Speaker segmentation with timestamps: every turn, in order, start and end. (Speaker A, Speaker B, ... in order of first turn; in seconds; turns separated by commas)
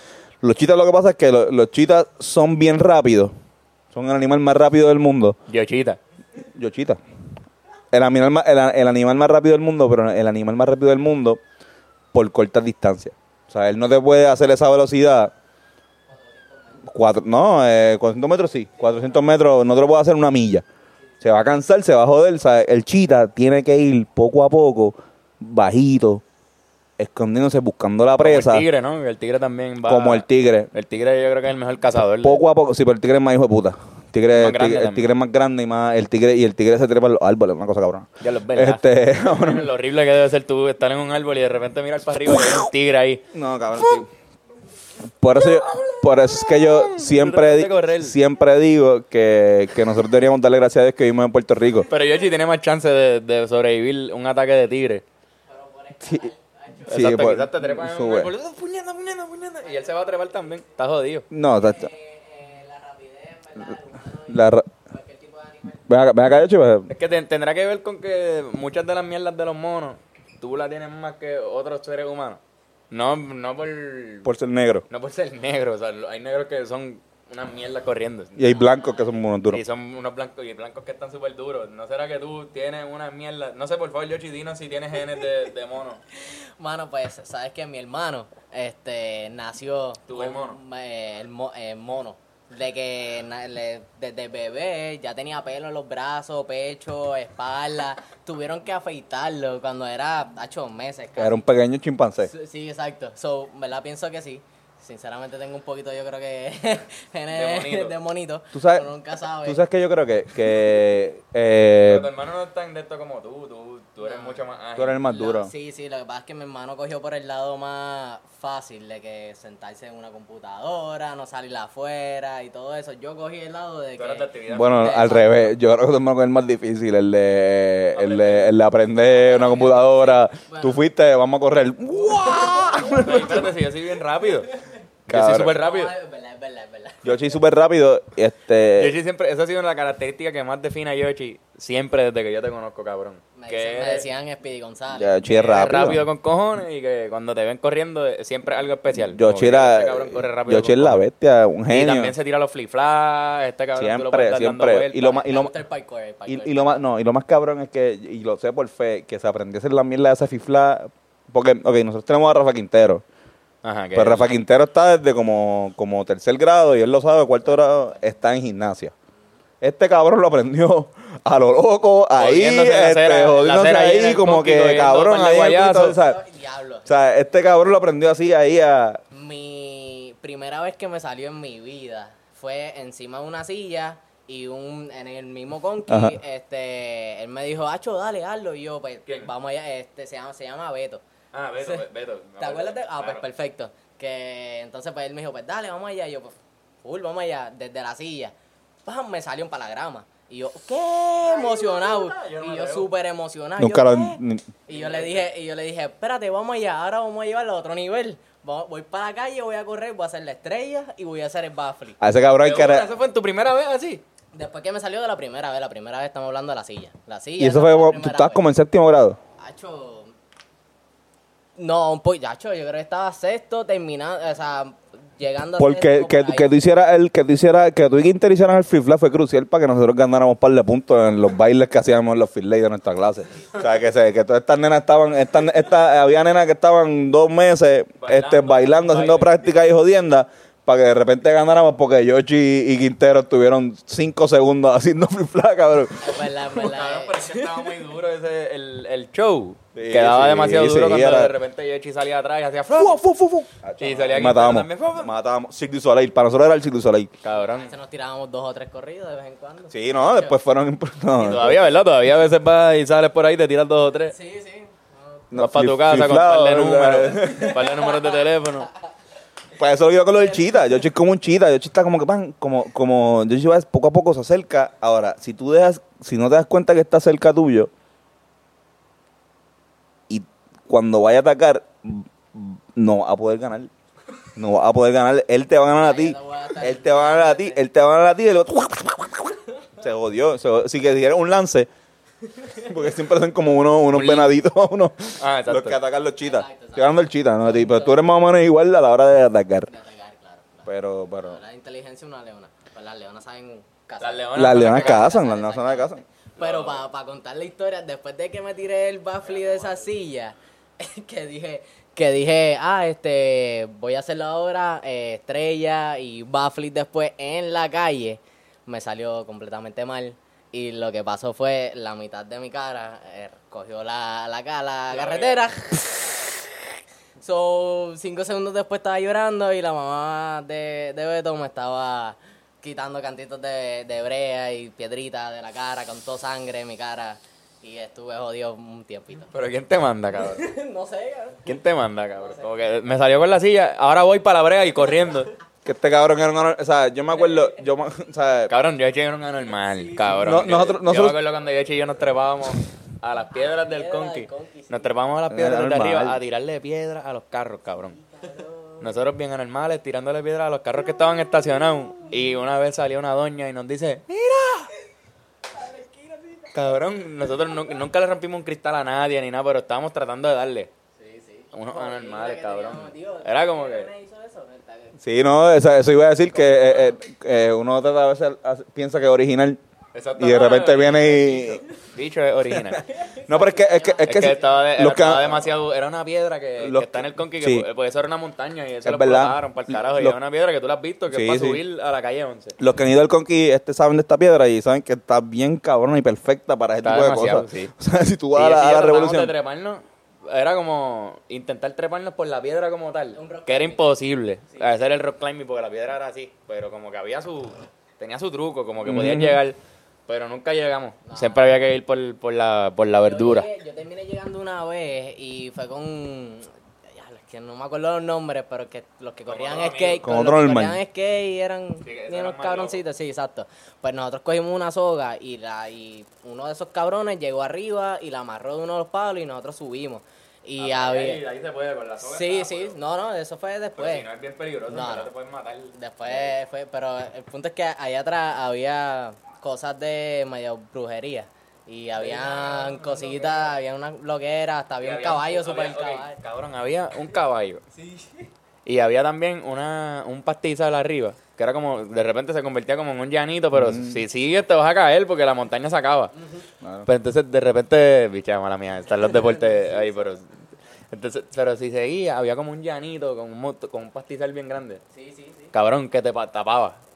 Speaker A: 0.4-3.3, Speaker A: 3.9-5.4, Speaker B: 5.5-6.0, Speaker A: 6.5-7.0, Speaker A: 7.9-11.4, Speaker A: 12.1-15.3, Speaker A: 16.9-20.6, Speaker A: 21.2-26.2, Speaker A: 27.0-28.7, Speaker B: 28.2-32.4, Speaker A: 29.9-30.7, Speaker A: 32.2-39.7, Speaker B: 34.3-35.1, Speaker B: 38.2-43.2, Speaker A: 43.3-44.1, Speaker A: 45.2-51.9, Speaker B: 46.9-48.2, Speaker B: 51.9-55.0, Speaker C: 55.5-56.9, Speaker A: 56.0-56.3, Speaker A: 56.9-58.3, Speaker B: 56.9-61.3, Speaker C: 59.6-60.6, Speaker A: 61.3-61.9, Speaker C: 61.6-65.8, Speaker A: 64.3-64.7, Speaker A: 65.9-66.9, Speaker B: 66.9-72.4, Speaker B: 72.9-74.3, Speaker A: 74.2-74.8, Speaker B: 74.9-78.5, Speaker A: 78.4-79.6, Speaker B: 79.5-86.0, Speaker C: 86.6-101.5, Speaker B: 90.1-90.6, Speaker A: 101.2-102.3, Speaker C: 102.2-109.6, Speaker B: 107.3-108.0, Speaker A: 108.5-108.9, Speaker A: 109.4-112.1, Speaker B: 111.8-115.0, Speaker C: 114.0-114.4, Speaker A: 114.8-115.5, Speaker C: 115.1-125.5, Speaker B: 124.0-125.0, Speaker A: 124.5-133.5, Speaker B: 128.0-128.5, Speaker C: 129.1-130.8, Speaker C: 132.0-133.5, Speaker B: 133.0-134.5, Speaker A: 135.1-135.6, Speaker B: 135.1-135.9, Speaker C: 135.5-137.2, Speaker A: 137.0-138.9, Speaker B: 138.8-144.1, Speaker C: 143.4-145.2, Speaker A: 144.9-146.0, Speaker B: 145.3-151.1, Speaker A: 149.1-152.1, Speaker B: 151.7-155.2, Speaker A: 153.8-155.5, Speaker C: 155.0-156.8, Speaker A: 156.3-163.0, Speaker B: 163.6-164.3, Speaker A: 164.0-168.9, Speaker A: 169.6-176.2, Speaker B: 172.2-176.0, Speaker C: 175.9-176.9, Speaker A: 176.9-179.0, Speaker C: 179.1-191.0, Speaker A: 185.9-186.2, Speaker B: 191.3-193.2, Speaker C: 192.4-198.3, Speaker C: 198.8-212.0, Speaker B: 201.2-202.9, Speaker A: 203.6-204.5, Speaker B: 204.7-205.2, Speaker A: 212.0-212.9, Speaker B: 212.4-214.0, Speaker C: 214.3-218.4, Speaker A: 217.4-219.2, Speaker C: 219.4-220.1, Speaker C: 221.6-226.5, Speaker A: 225.6-246.3, Speaker B: 238.0-239.5, Speaker C: 246.0-247.7, Speaker B: 246.5-253.0, Speaker A: 249.8-251.3, Speaker A: 252.7-257.1, Speaker B: 253.8-255.1, Speaker B: 257.2-257.7, Speaker C: 257.5-260.4, Speaker A: 259.7-261.6, Speaker B: 261.2-264.1, Speaker C: 264.1-265.2, Speaker A: 265.3-267.7, Speaker B: 265.4-268.7, Speaker A: 269.6-277.7, Speaker A: 280.1-283.7, Speaker A: 284.4-291.7, Speaker C: 285.8-287.6, Speaker A: 292.6-299.7, Speaker B: 293.9-294.3, Speaker B: 295.2-295.8, Speaker C: 296.2-298.1, Speaker C: 299.7-326.5, Speaker A: 300.7-301.4, Speaker B: 304.0-305.1, Speaker A: 304.4-306.0, Speaker B: 306.4-306.8, Speaker B: 309.3-309.9, Speaker B: 324.9-325.4, Speaker C: 327.2-339.3, Speaker B: 339.3-340.5, Speaker C: 340.3-341.6, Speaker B: 341.4-345.3, Speaker A: 345.6-348.5, Speaker B: 348.5-358.0, Speaker C: 349.8-350.2, Speaker A: 350.1-351.2, Speaker C: 353.4-354.9, Speaker A: 355.3-356.2, Speaker C: 358.1-358.9, Speaker B: 358.8-364.7, Speaker C: 365.5-366.6, Speaker B: 366.5-370.7, Speaker C: 371.0-374.9, Speaker B: 371.5-373.9, Speaker A: 375.0-379.6, Speaker B: 379.9-382.8, Speaker A: 380.2-381.6, Speaker C: 382.8-384.7, Speaker A: 383.3-385.4, Speaker B: 384.0-392.6, Speaker A: 386.6-387.7, Speaker A: 388.8-390.2, Speaker A: 391.1-391.6, Speaker A: 392.6-399.3, Speaker B: 396.8-397.7, Speaker B: 398.3-413.5, Speaker C: 403.1-403.9, Speaker A: 408.8-409.4, Speaker C: 411.1-411.5, Speaker C: 413.0-431.2, Speaker B: 419.3-420.1, Speaker A: 420.0-420.8, Speaker B: 421.8-422.8, Speaker B: 430.6-432.8, Speaker C: 432.0-434.1, Speaker B: 433.8-436.4, Speaker C: 434.7-435.1, Speaker C: 435.8-446.1, Speaker B: 442.0-443.5, Speaker B: 444.8-447.6, Speaker C: 447.8-448.1, Speaker B: 448.6-456.1, Speaker A: 453.5-454.0, Speaker A: 456.6-456.9, Speaker B: 456.9-460.3, Speaker C: 459.0-460.2, Speaker B: 460.9-464.8, Speaker C: 464.9-465.5, Speaker B: 465.5-466.8